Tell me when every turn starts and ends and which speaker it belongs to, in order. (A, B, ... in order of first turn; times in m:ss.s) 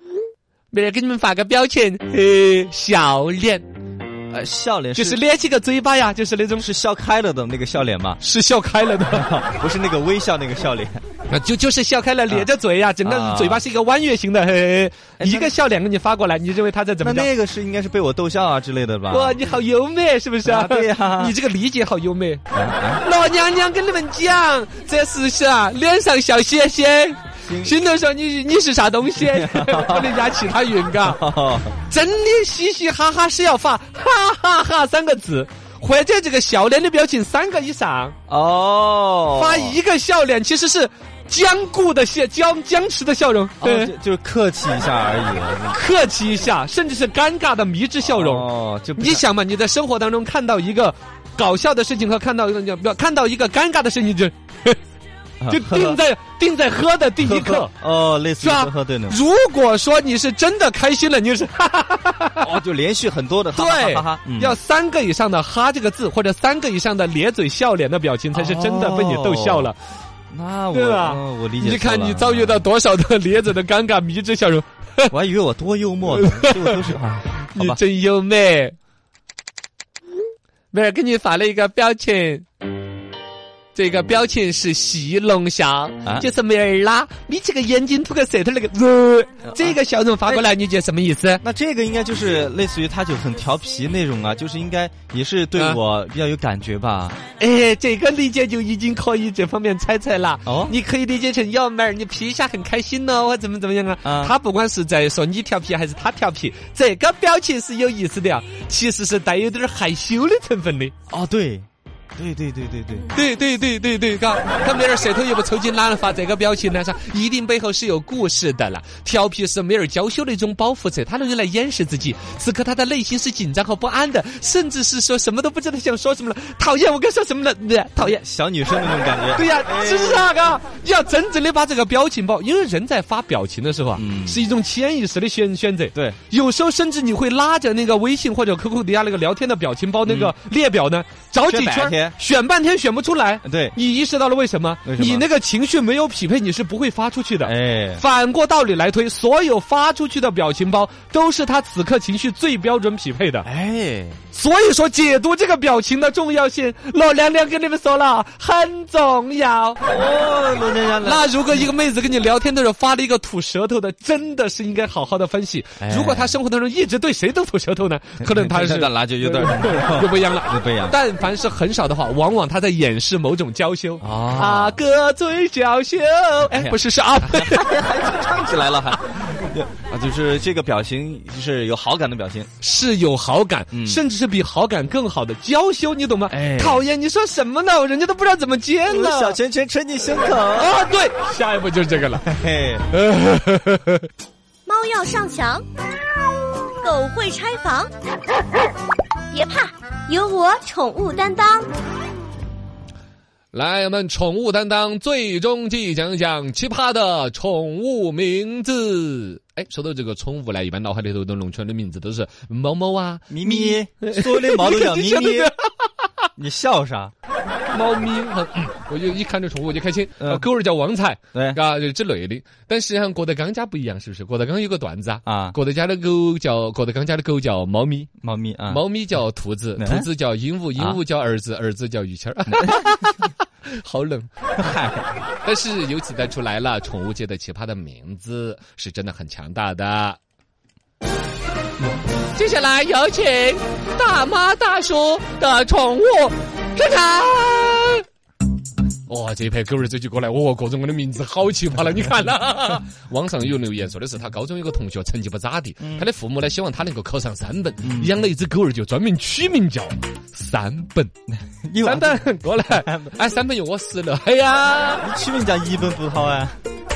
0:00.7-0:03.6 A
0:04.3-0:05.2 B
0:05.0-0:06.6 A
0:06.6-0:08.2 B
0:08.2-0:09.3 A
0:09.1-0:11.0 B
0:11.3-0:17.3 A
0:13.0-0:13.6 B
0:15.2-0:15.5 B
0:17.0-0:19.5 B
0:19.1-0:22.4 A
0:20.4-0:21.3 B
0:22.5-0:23.0 B
0:23.0-0:31.2 A
0:27.4-0:27.7 B
0:29.2-0:30.1 B
0:31.0-0:31.8 B
0:31.9-0:38.2 A
0:38.3-0:39.8 B
0:39.3-0:43.9 A
0:43.6-0:45.8 B
0:45.7-0:48.4 A
0:48.0-0:49.2 B
0:49.0-0:54.8 A
0:55.4-0:56.0 B
0:55.5-0:57.7 A
0:57.2-0:59.2 B
0:58.4-1:02.6 A
1:02.4-1:04.6 B
1:03.5-1:09.8 A
1:08.3-1:09.7 B
1:10.3-1:12.6 B
1:10.7-1:15.1 A
1:15.1-1:17.8 B
1:16.1-1:16.9 A
1:17.5-1:18.8 A
1:20.7-1:22.4 A
1:23.7-1:31.4 A
1:26.0-1:26.3 B
1:29.5-1:30.5 B
1:31.4-1:37.2 B
1:37.4-1:50.9 A
1:40.4-1:40.7 B
1:44.0-1:44.3 B
1:51.1-1:53.1 B
1:53.1-2:08.2 A
2:08.0-2:10.3 B
2:09.3-2:33.5 A
2:14.0-2:14.4 B
2:15.9-2:16.2 B
2:20.1-2:20.3 B
2:21.5-2:22.2 B
2:23.4-2:23.8 B
2:24.8-2:25.3 B
2:27.4-2:28.0 B
2:33.4-2:34.2 B
2:34.3-2:39.8 A
2:39.8-2:41.6 B
2:41.0-2:57.7 A
2:45.8-2:46.4 B
2:48.2-2:51.0 B
2:54.0-2:54.8 B
2:56.5-3:02.5 B
3:02.6-3:09.4 A
3:03.7-3:04.0 B
3:06.3-3:06.8 B
3:08.9-3:10.8 B
3:10.5-3:12.3 A
3:12.2-3:12.8 B
3:12.9-3:14.1 A
3:14.7-3:15.6 C
3:16.8-3:17.9 C
3:19.3-3:21.7 C
3:23.5-3:35.6 A
3:33.3-3:35.5 B
3:36.4-3:37.1 B
3:37.7-3:48.1 A
3:40.2-3:40.4 B
3:41.3-3:41.6 B
3:45.2-3:45.6 B
3:48.2-3:48.9 B
3:48.7-3:54.3 A
3:49.8-3:50.1 B
3:50.7-3:51.0 B
3:52.5-3:52.9 B
3:54.6-3:55.1 B
3:55.4-4:00.2 A
4:02.3-4:08.0 A
4:09.1-4:21.1 A
4:15.8-4:16.0 B
4:17.8-4:18.2 B
4:21.3-4:23.1 B
4:21.8-4:25.0 A
4:25.0-4:26.6 B